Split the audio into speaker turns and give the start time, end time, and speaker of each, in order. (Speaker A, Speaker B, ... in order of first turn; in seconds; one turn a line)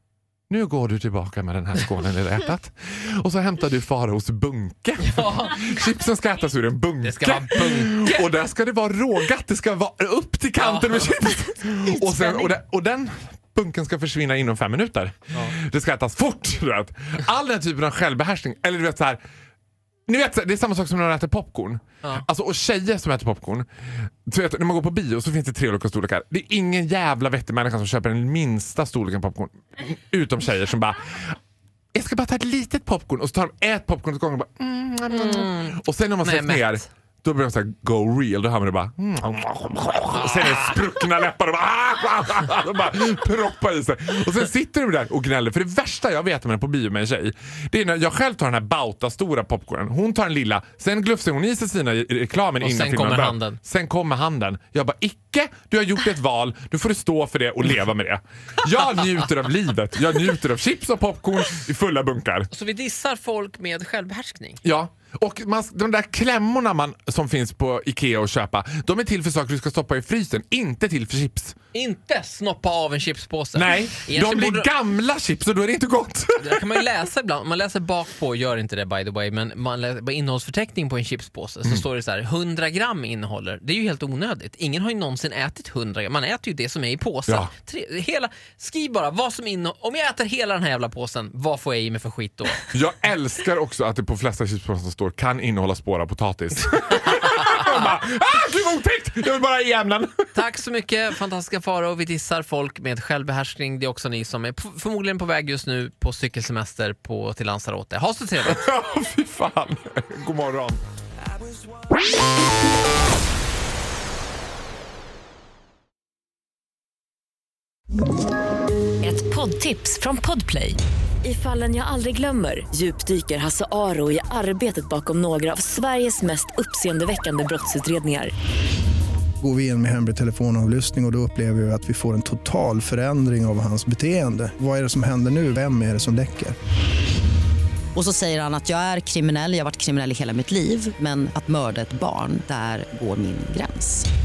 Speaker A: 0.5-19.2
Speaker B: 5.0-5.7
Speaker B: 7.0-8.3
Speaker B: 10.6-11.2
Speaker B: 12.1-12.4
Speaker A: 20.1-23.7
Speaker A: 24.3-31.4
Speaker A: 31.9-62.5
Speaker B: 35.1-36.9
Speaker B: 40.1-40.8
Speaker B: 52.6-53.6
Speaker B: 62.5-64.6
Speaker A: 64.6-71.5
Speaker B: 71.7-74.7
Speaker A: 73.5-76.9
Speaker B: 76.4-92.6
Speaker A: 92.7-100.3
Speaker B: 100.3-108.6
Speaker A: 108.4-110.8
Speaker C: 119.0-128.3
Speaker D: 129.4-136.5
Speaker E: 137.9-144.1